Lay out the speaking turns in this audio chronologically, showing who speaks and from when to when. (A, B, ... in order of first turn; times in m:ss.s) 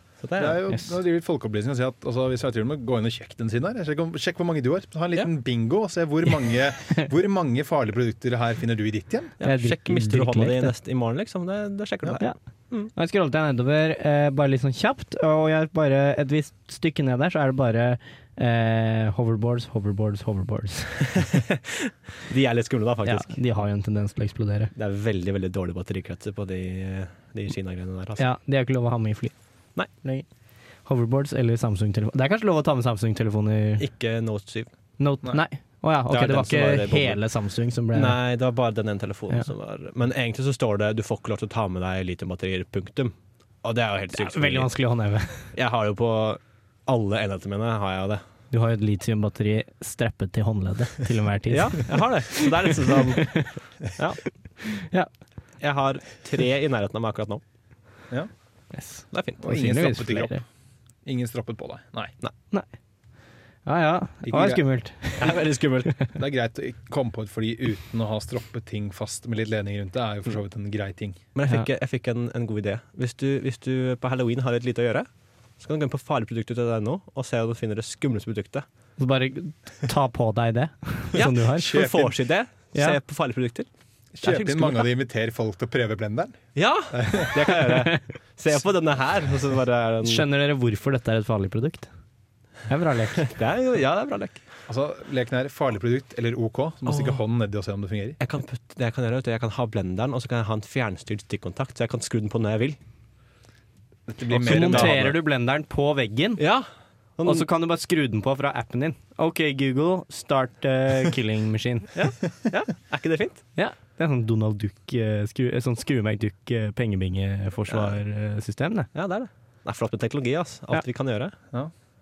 0:00.2-0:00.6 A
0:00.4-0:09.3 B
0:09.4-0:12.9 A
0:09.4-0:10.7 C
0:12.9-0:21.0 C
0:21.1-0:23.4 A
0:23.0-0:24.7 C
0:24.7-0:28.2 A
0:28.2-0:29.3 C
0:30.8-0:33.8 C
0:33.8-0:34.7 A
0:35.0-0:38.2 C
0:36.1-0:37.2 A
0:37.9-0:44.7 A
0:44.1-0:45.5 C
0:45.5-0:48.2 A
0:48.5-0:53.5 C
0:51.5-0:54.2 A
0:54.6-0:55.1 C
0:55.6-0:57.4 A
0:58.7-1:00.4 C
0:59.1-0:59.4 A
0:59.4-1:00.4 B
1:01.0-1:02.1 B
1:03.6-1:05.4 C
1:04.2-1:04.6 B
1:05.2-1:05.9 A
1:06.2-1:11.2 B
1:11.3-1:15.1 A
1:15.6-1:18.6 A
1:19.0-1:21.9 C
1:21.1-1:23.7 A
1:21.7-1:22.1 B
1:24.1-1:27.3 B
1:24.2-1:24.9 A
1:26.6-1:30.2 A
1:27.7-1:28.0 C
1:30.0-1:31.9 C
1:32.7-1:33.2 C
1:33.2-1:34.4 A
1:34.7-1:38.2 B
1:38.2-1:42.8 A
1:44.1-1:45.1 B
1:44.3-1:45.1 A
1:44.4-1:46.4 C
1:46.4-1:47.5 A
1:47.2-1:52.0 C
1:51.9-1:53.4 A
1:53.6-1:58.9 C
1:57.7-1:57.9 A
1:58.9-2:01.3 A